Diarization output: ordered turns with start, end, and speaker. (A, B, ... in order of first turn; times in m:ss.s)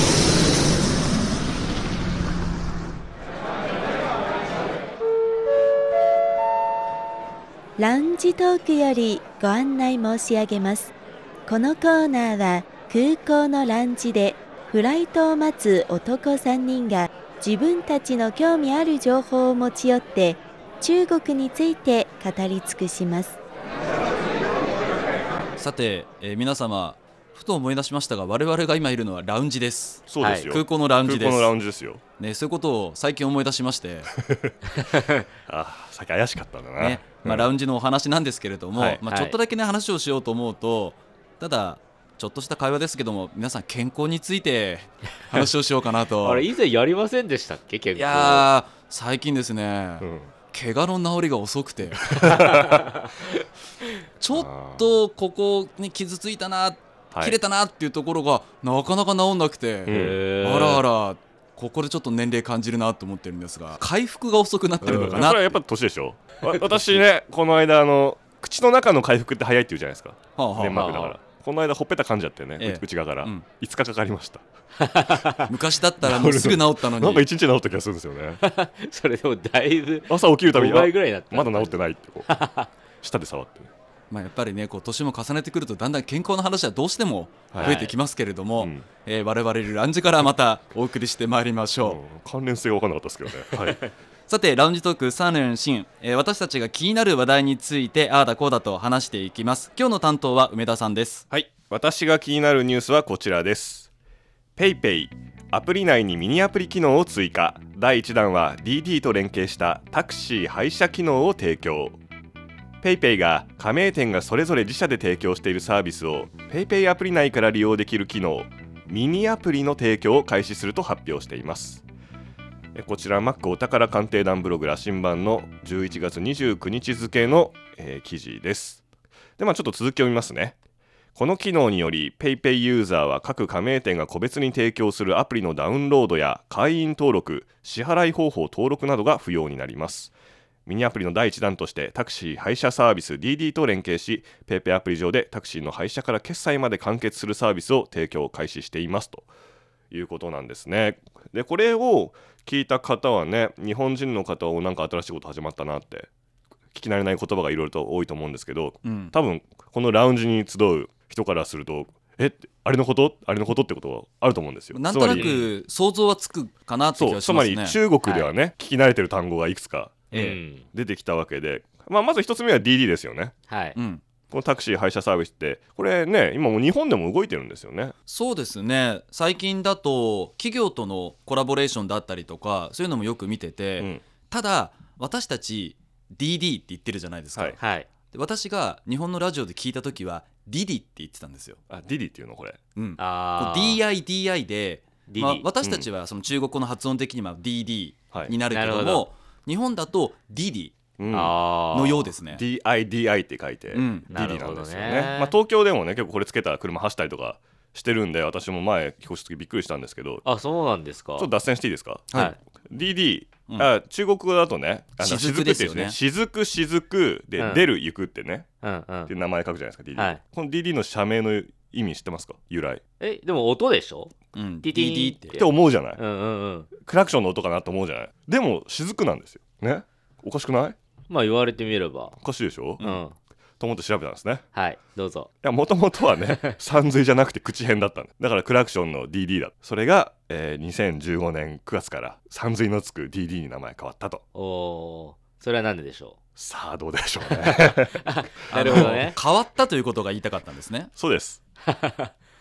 0:07.8-0:10.9 A
0:11.4-0:23.4 A
0:25.6-0:31.5 B
0:30.1-0:32.0 C
0:30.2-0:30.5 D
0:32.2-0:34.1 B
0:34.2-0:34.5 C
0:34.9-0:35.2 D
0:35.5-0:37.5 C
0:36.8-0:46.5 B
0:38.7-0:39.0 C
0:39.0-0:39.3 D
0:46.2-0:48.5 D
0:47.9-0:52.0 B
0:50.0-0:50.3 C
0:52.1-0:52.8 C
0:52.2-0:53.2 D
0:54.2-1:05.5 B
0:54.3-0:54.9 C
0:57.1-0:57.4 C
0:59.8-1:00.8 C
0:59.9-1:00.8 D
1:04.8-1:14.4 C
1:06.7-1:07.0 D
1:10.4-1:10.8 B
1:10.7-1:11.2 D
1:12.6-1:13.5 B
1:14.8-1:15.5 D
1:15.5-1:17.2 B
1:16.0-1:18.4 C
1:18.4-1:22.7 D
1:20.1-1:22.3 C
1:23.0-1:23.7 C
1:24.1-1:32.0 B
1:27.5-1:27.8 C
1:27.6-1:27.9 D
1:28.6-1:28.9 C
1:31.8-1:33.9 C
1:34.3-1:41.2 B
1:41.3-1:43.9 C
1:44.6-1:52.0 C
1:52.8-2:01.8 C
2:02.7-2:08.8 C
2:09.4-2:10.6 C
2:11.1-2:20.1 C
2:20.6-2:29.3 C
2:29.9-2:36.1 C
2:36.7-2:45.4 C
2:38.8-2:39.1 B
2:44.7-2:47.8 B
2:45.0-2:45.5 D
2:46.9-2:53.3 C
2:48.0-2:48.3 D
2:50.1-2:50.4 B
2:50.1-2:50.7 D
2:53.5-2:53.8 D
2:53.8-2:54.0 B
2:54.3-2:57.9 C
2:58.1-3:07.6 B
3:03.8-3:04.0 C
3:07.6-3:07.9 D
3:08.1-3:11.6 B
3:11.7-3:12.6 C
3:12.7-3:20.8 B
3:13.0-3:13.8 D
3:15.1-3:15.4 D
3:15.6-3:15.9 C
3:18.1-3:18.4 C
3:18.5-3:19.1 D
3:21.0-3:21.4 C
3:21.1-3:22.1 D
3:21.7-3:22.4 B
3:22.3-3:30.2 C
3:23.7-3:24.1 B
3:24.1-3:25.3 D
3:30.2-3:31.3 D
3:31.2-3:38.5 C
3:32.1-3:32.4 B
3:35.0-3:36.0 B
3:37.4-3:37.7 D
3:38.6-3:39.1 D
3:39.1-3:42.8 C
3:43.0-3:46.7 D
3:44.3-3:45.4 B
3:45.3-3:46.0 C
3:46.8-3:50.8 C
3:51.1-3:52.2 D
3:52.2-3:52.9 C
3:52.8-3:53.2 D
3:53.6-3:54.4 C
3:54.5-3:55.3 D
3:55.4-4:04.2 C
4:04.3-4:06.2 D
4:06.4-4:09.1 C
4:07.2-4:09.2 D
4:08.5-4:10.9 B
4:11.0-4:11.4 C
4:11.6-4:12.1 D